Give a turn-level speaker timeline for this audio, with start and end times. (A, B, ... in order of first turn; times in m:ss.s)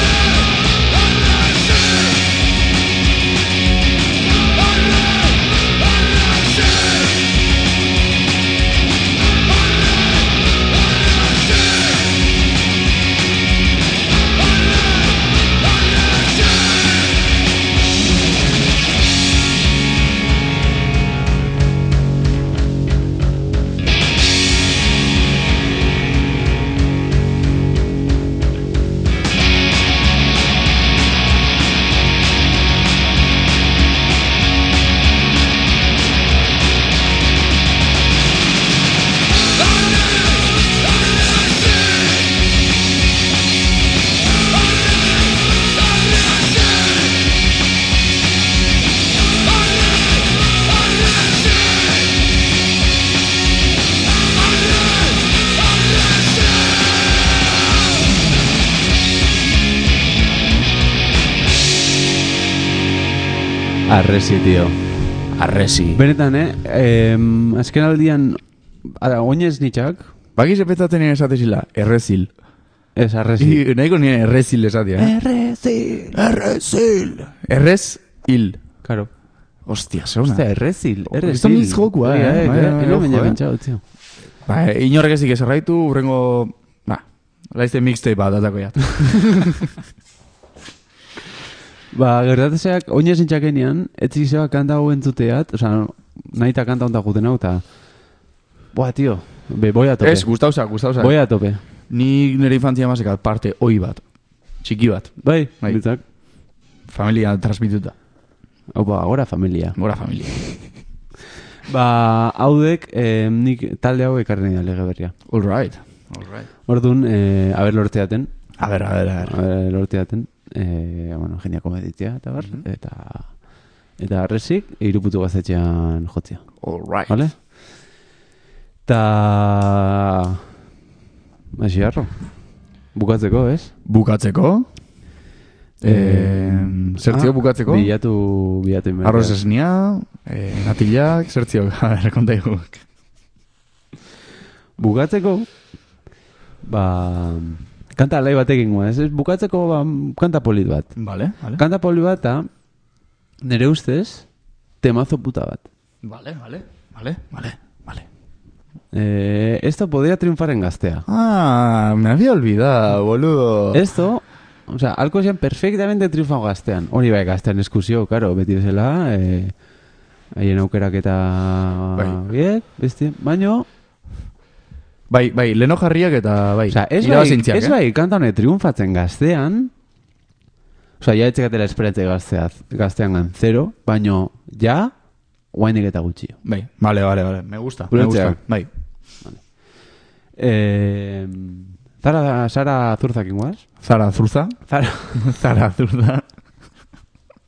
1:03.9-1:04.8 A
1:05.3-1:10.1 A
1:10.4-1:12.3 B
1:13.0-1:13.6 A
1:13.4-1:15.1 B
1:15.0-1:16.2 A
1:16.1-1:18.6 B
1:18.8-1:19.1 A
1:19.6-1:20.4 B
1:20.3-1:23.8 A
1:21.1-1:23.4 B
1:24.4-1:29.7 B
1:31.9-1:37.6 A
1:38.7-1:40.3 A
1:40.0-1:41.2 B
1:41.0-1:41.6 A
1:41.9-1:44.0 B
1:44.6-1:45.8 B
1:45.2-1:46.0 A
1:46.9-1:47.9 B
1:48.7-1:49.8 A
1:49.8-1:50.6 B
1:51.7-1:55.1 A
1:55.3-1:56.5 B
1:56.7-1:58.3 A
1:58.6-1:59.4 B
1:59.2-2:03.4 A
2:04.0-2:06.5 A
2:06.6-2:07.1 B
2:07.0-2:07.4 A
2:08.8-2:10.4 A
2:11.5-2:12.1 A
2:12.9-2:13.7 A
2:13.8-2:14.7 B
2:15.8-2:17.9 B
2:15.8-2:19.4 A
2:19.0-2:22.8 B
2:24.8-2:25.5 A
2:26.6-2:30.9 A
2:31.0-2:31.6 B
2:31.5-2:32.5 A
2:33.4-2:34.2 A
2:34.8-2:35.6 A
2:36.0-2:38.1 B
2:38.9-2:41.0 A
2:41.1-2:43.8 B
2:43.7-2:49.6 A
2:50.4-2:53.6 A
2:55.1-2:57.8 B
2:56.7-2:59.7 A
3:01.0-3:04.9 A
3:05.5-3:06.4 A
3:06.4-3:08.7 B
3:07.9-3:08.4 A
3:10.4-3:13.6 A
3:13.8-3:14.6 B
3:14.7-3:15.3 A
3:15.1-3:16.2 B